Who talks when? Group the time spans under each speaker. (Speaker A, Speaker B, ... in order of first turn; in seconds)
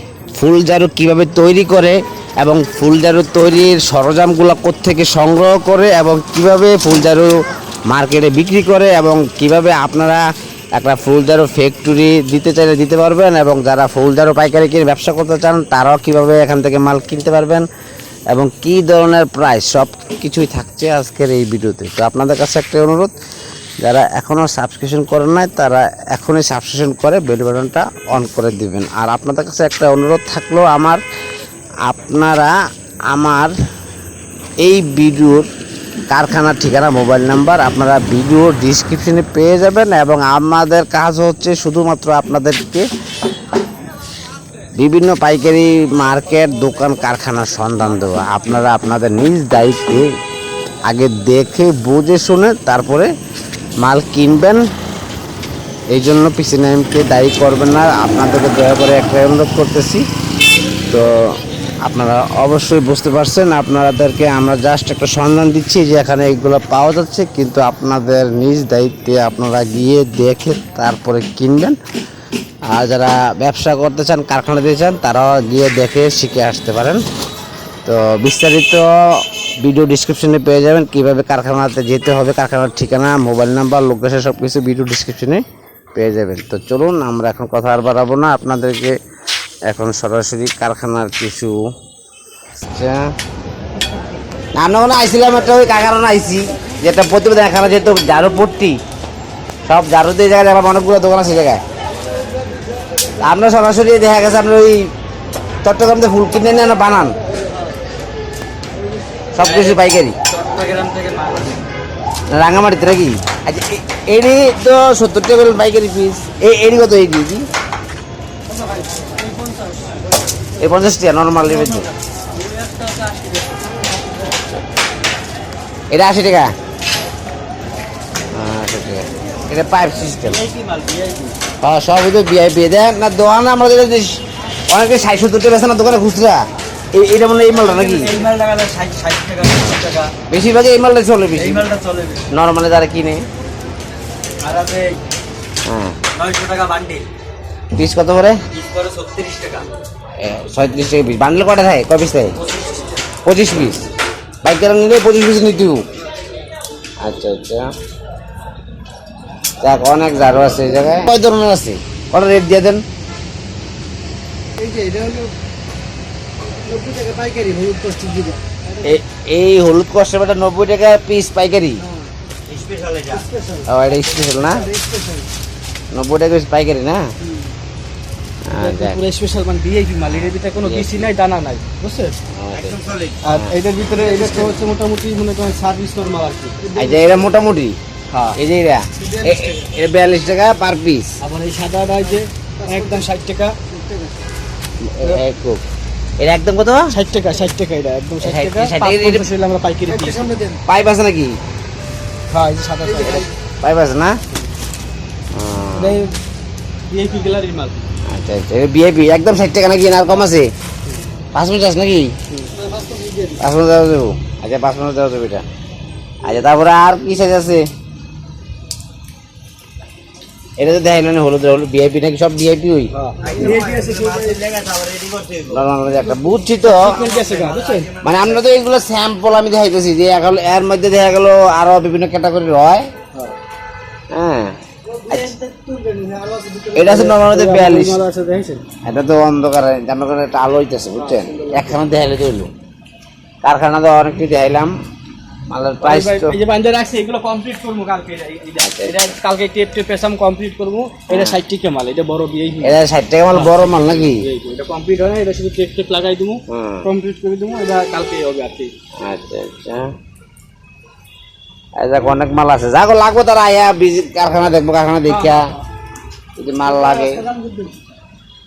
Speaker A: 0.4-7.3, 7.9-10.2, 10.8-17.6, 18.3-23.1, 23.8-31.0, 31.9-32.5, 33.1-33.5, 34.6-35.5, 36.1-42.9, 44.8-50.1, 50.9-53.1, 53.8-54.6, 55.9-60.0, 61.8-71.8, 72.7-77.0, 77.8-85.4, 86.0-88.9, 89.7-91.7, 92.6-93.1, 94.6-98.8, 99.7-101.6, 103.2-104.9, 105.6-107.2, 109.3-110.2, 112.3-117.4, 120.6-121.9, 125.9-126.5, 128.3-130.4, 131.6-138.2, 140.3-141.7, 142.3-143.2, 145.7-146.0, 147.8-148.4, 150.2-152.3, 153.2-153.9, 154.4-155.8, 157.0-157.7, 159.6-162.8, 168.8-171.8, 173.6-174.7, 175.9-177.1, 178.5-179.0, 180.0-181.1, 182.3-183.5, 186.7-187.8, 188.3-191.1, 194.9-195.6, 196.2-196.9, 198.2-199.3, 200.6-201.4, 203.6-204.2, 205.3-206.0, 208.1-210.5, 211.3-212.1, 213.4-215.4, 216.2-217.7, 220.6-222.9, 225.5-227.0, 228.0-232.9, 234.1-234.5, 236.7-238.0, 238.8-242.5, 243.4-244.7, 245.5-246.4, 248.6-249.0, 251.1-251.4, 252.6-254.2, 256.5-256.9, 259.0-259.9, 261.8-265.5, 266.4-267.2
Speaker B: 109.4-109.8, 110.3-111.6, 122.4-123.6, 130.3-131.3, 137.6-140.1, 141.3-142.3, 144.4-144.9, 146.2-147.1, 148.5-149.7, 152.4-152.7, 178.5-182.2, 183.2-186.7, 188.1-188.4, 191.2-193.6, 196.9-200.4, 202.3-203.3, 205.7-206.1, 206.9-207.8, 222.9-224.7, 226.6-228.0, 235.1-238.6, 241.0-241.6, 245.8-252.8, 253.3-258.7
Speaker C: 164.6-165.3, 166.7-168.4, 172.5-173.6, 174.5-175.2, 182.8-183.1, 184.2-184.5, 189.0-189.5, 192.6-192.9, 193.7-194.1, 200.1-200.6, 212.6-213.3, 223.2-225.5, 227.1-228.2